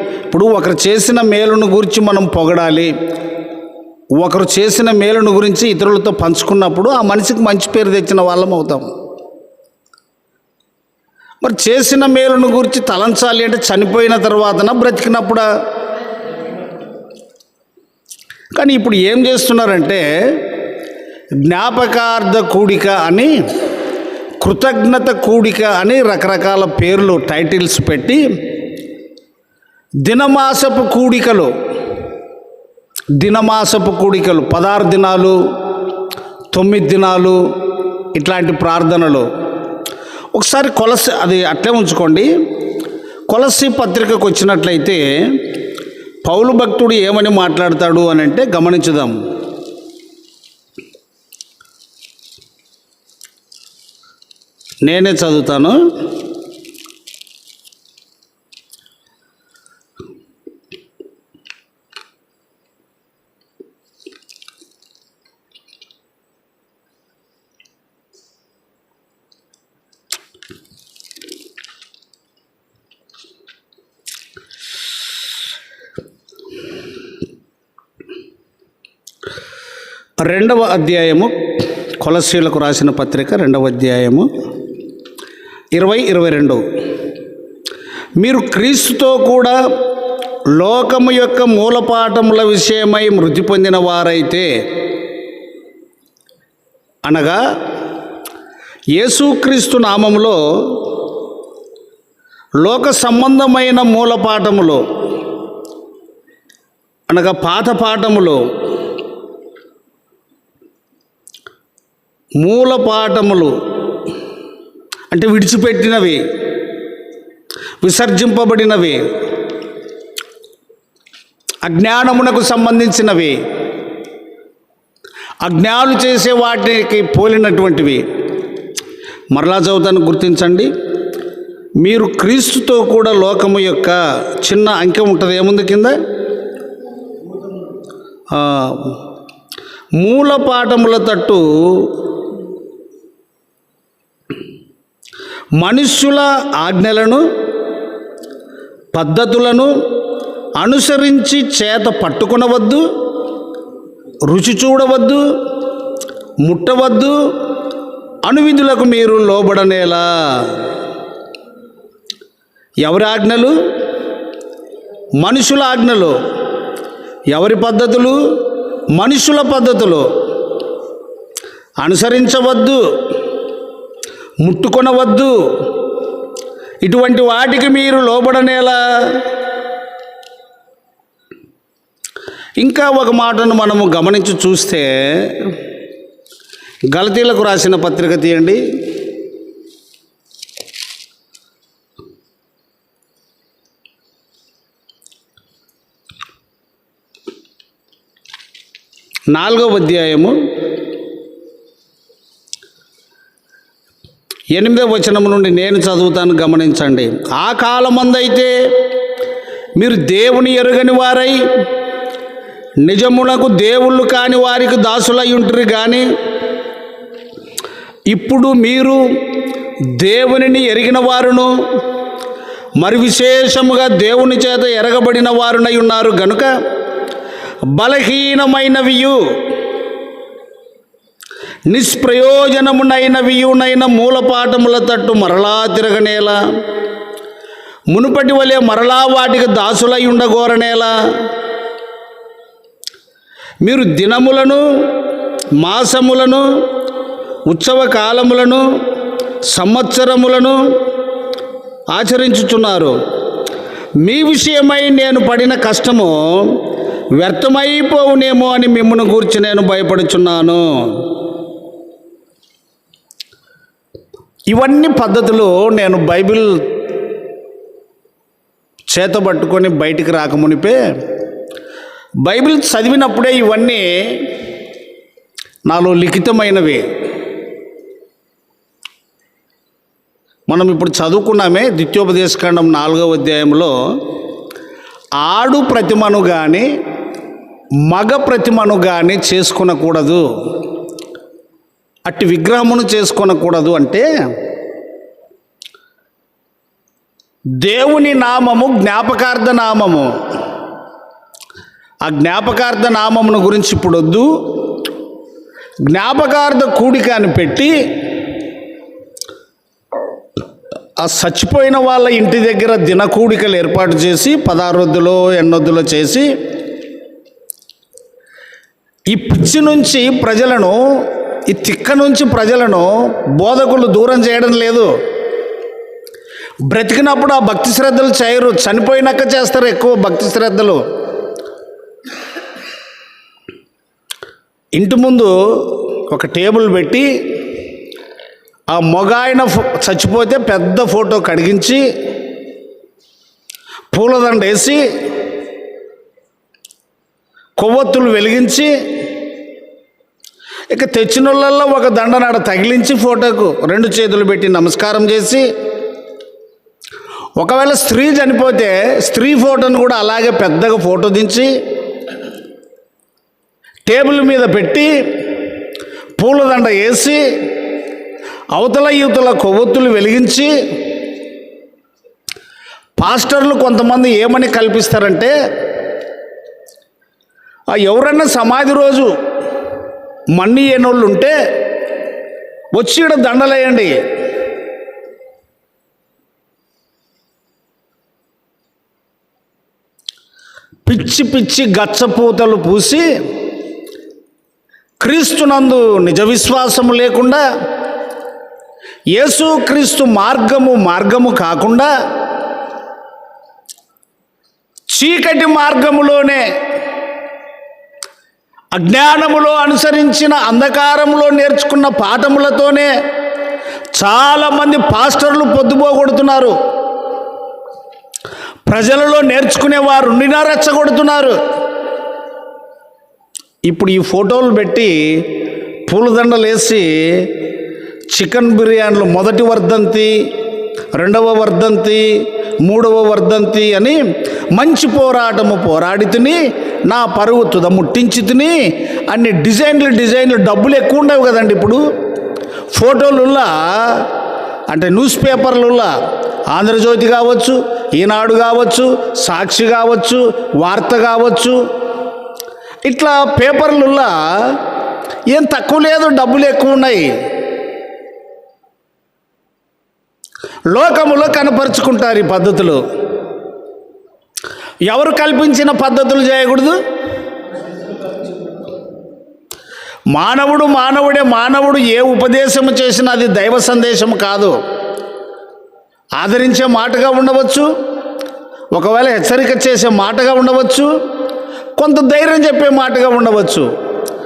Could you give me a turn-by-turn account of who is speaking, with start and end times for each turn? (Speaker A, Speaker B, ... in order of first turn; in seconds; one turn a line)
Speaker A: 0.3-2.9
Speaker A: 4.2-8.9
Speaker A: 11.4-15.5
Speaker A: 18.5-20.4
Speaker A: 21.4-23.3
Speaker A: 24.4-28.2
Speaker A: 30.0-31.5
Speaker A: 33.2-35.4
Speaker A: 36.5-37.4
Speaker A: 38.1-39.3
Speaker A: 40.3-42.3
Speaker A: 43.3-45.4
Speaker A: 46.2-49.1
Speaker A: 54.9-55.8
Speaker A: 80.2-81.3
Speaker A: 82.0-84.3
Speaker A: 85.7-86.6
Speaker A: 88.2-89.5
Speaker A: 90.5-94.5
Speaker A: 97.0-97.4
Speaker A: 99.0-100.8
Speaker A: 102.6-104.8
Speaker A: 107.1-108.4
Speaker A: 112.4-113.5
Speaker A: 115.1-116.2
Speaker A: 117.8-119.0
Speaker A: 121.6-123.4
Speaker A: 125.4-128.0
Speaker A: 129.3-130.7
Speaker A: 131.8-135.9
Speaker A: 138.3-139.0
Speaker A: 140.0-141.9
Speaker A: 145.6-147.2
Speaker A: 148.9-149.7
Speaker A: 150.6-152.8
Speaker A: 154.3-155.2
Speaker A: 156.4-157.2
Speaker A: 158.2-160.5
Speaker A: 162.8-163.5
Speaker A: 165.2-166.2
Speaker A: 167.3-168.2
Speaker A: 168.9-170.1
Speaker A: 171.8-172.8
Speaker A: 174.4-175.3
Speaker A: 176.8-179.2
Speaker A: 182.6-185.5
Speaker A: 186.9-188.6
Speaker A: 199.3-200.3
Speaker A: 204.5-208.5
Speaker A: 209.8-211.5
Speaker A: 212.8-216.0
Speaker A: 218.1-219.0
Speaker A: 220.0-221.5
Speaker A: 222.8-226.5
Speaker A: 227.7-229.2
Speaker A: 231.7-236.4
Speaker A: 237.9-240.9
Speaker A: 243.6-244.6
Speaker A: 245.6-246.4
Speaker A: 247.5-248.6
Speaker A: 249.5-250.6
Speaker A: 251.9-253.0
Speaker A: 254.0-256.6
Speaker A: 257.2-261.0
Speaker A: 264.5-266.6
Speaker A: 268.9-270.8
Speaker A: 272.2-274.3
Speaker A: 275.7-276.8
Speaker A: 280.5-283.7
Speaker A: 285.2-286.7
Speaker A: 287.9-290.2
Speaker A: 292.1-294.1
Speaker A: 297.6-300.1
Speaker A: 302.0-304.3
Speaker A: 305.9-307.8
Speaker A: 311.0-316.3
Speaker A: 319.1-320.8
Speaker A: 321.5-324.9
Speaker A: 326.7-330.8
Speaker A: 334.8-337.1
Speaker A: 338.7-341.8
Speaker A: 343.9-344.8
Speaker A: 347.6-348.7
Speaker A: 350.7-355.4
Speaker A: 357.4-361.5
Speaker A: 363.9-365.3
Speaker A: 366.2-367.2
Speaker A: 368.5-370.5
Speaker A: 373.0-375.4
Speaker A: 377.7-379.1
Speaker A: 380.4-381.4
Speaker A: 382.7-383.9
Speaker A: 390.9-393.1
Speaker A: 395.0-397.4
Speaker A: 399.1-401.9
Speaker A: 404.9-406.4
Speaker A: 408.7-412.9
Speaker A: 413.9-416.6
Speaker A: 418.7-421.4
Speaker A: 423.6-425.2
Speaker A: 425.9-427.3
Speaker A: 428.1-430.1
Speaker A: 431.0-434.0
Speaker A: 434.5-438.6
Speaker A: 439.1-441.8
Speaker A: 442.7-444.1
Speaker A: 444.7-445.9
Speaker A: 446.5-451.6
Speaker A: 452.9-454.6
Speaker A: 455.3-457.1
Speaker A: 460.7-462.8
Speaker A: 464.9-466.8
Speaker A: 470.1-474.6
Speaker A: 476.2-477.7
Speaker A: 478.7-480.9
Speaker A: 481.8-483.7